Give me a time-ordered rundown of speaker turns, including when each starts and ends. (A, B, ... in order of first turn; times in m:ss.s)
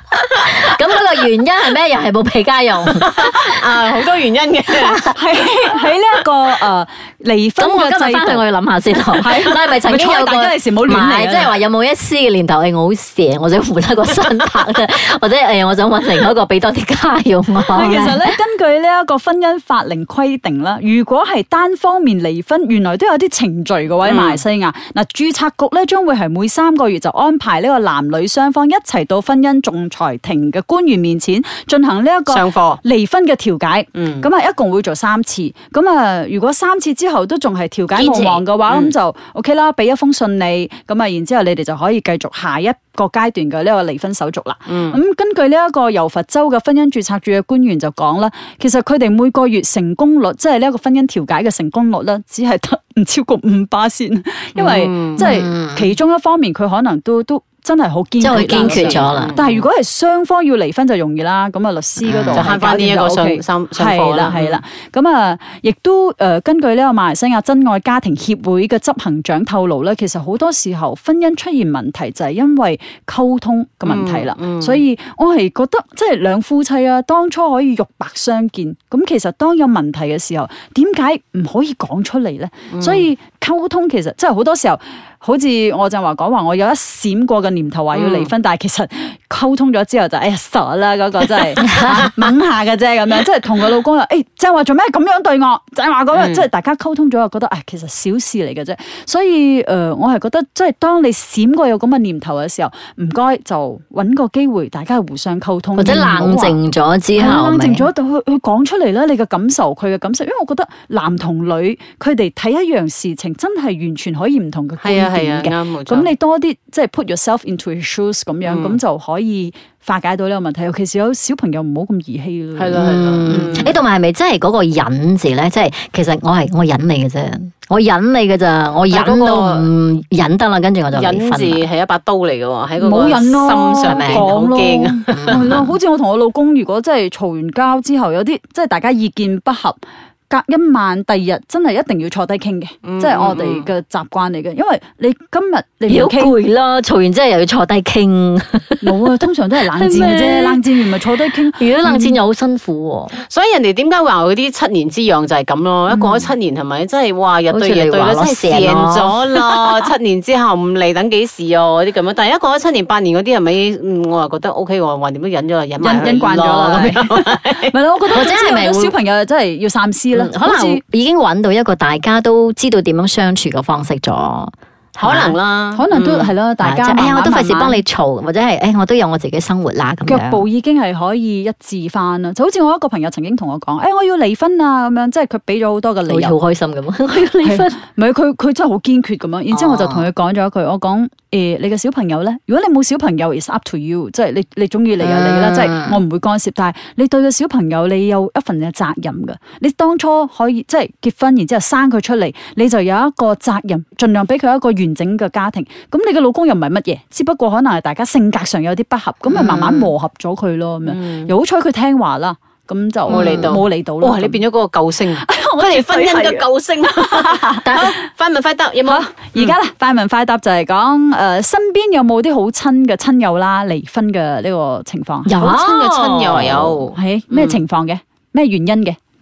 0:00.4-0:03.6 A
0:03.0-0:05.0 B
0:05.1-0:08.4 C
0:07.6-0:18.4 A
0:09.2-0:11.6 C
0:17.7-1:46.6 C
0:24.0-0:24.4 B
0:32.3-0:32.8 B
0:34.0-0:34.3 B
0:38.0-0:38.9 B
0:44.7-0:45.0 B
0:54.6-0:55.3 B
0:55.2-0:56.0 A
0:58.2-0:59.4 A
0:58.3-0:59.7 B
1:02.0-1:02.5 A
1:02.3-1:04.6 B
1:13.8-1:14.8 B
1:22.7-1:23.1 B
1:27.9-1:28.3 B
1:36.1-1:36.5 B
1:45.8-1:47.9 A
1:47.2-2:02.8 C
1:54.8-1:56.1 B
1:58.4-1:58.8 B
2:02.6-2:03.8 B
2:02.7-2:11.6 A
2:08.9-2:09.7 B
2:10.9-2:15.4 B
2:12.8-2:26.4 C
2:13.8-2:14.3 A
2:15.1-2:15.6 A
2:22.8-2:23.7 B
2:25.9-2:29.1 A
2:28.8-2:31.6 C
2:29.7-2:30.6 A
2:31.5-2:33.2 A
2:31.8-2:32.2 B
2:33.2-2:47.7 B
2:35.9-2:36.2 C
2:37.5-2:39.5 A
2:45.8-2:50.8 C
2:48.1-2:49.0 A
2:50.1-2:55.4 A
2:55.0-2:56.3 B
2:55.7-2:57.8 C
2:56.6-3:00.4 A
3:00.0-3:06.4 C
3:06.1-3:07.8 A
3:07.4-3:34.4 C
3:09.5-3:10.1 A
3:15.0-3:16.0 A
3:29.3-3:29.9 A
3:30.8-3:31.3 B
3:33.1-3:39.6 B
3:33.1-3:33.6 A
3:35.2-3:36.4 C
3:37.0-3:37.6 C
3:38.9-3:45.3 C
3:45.2-3:46.8 A
3:45.4-3:47.6 B
3:46.9-3:49.0 C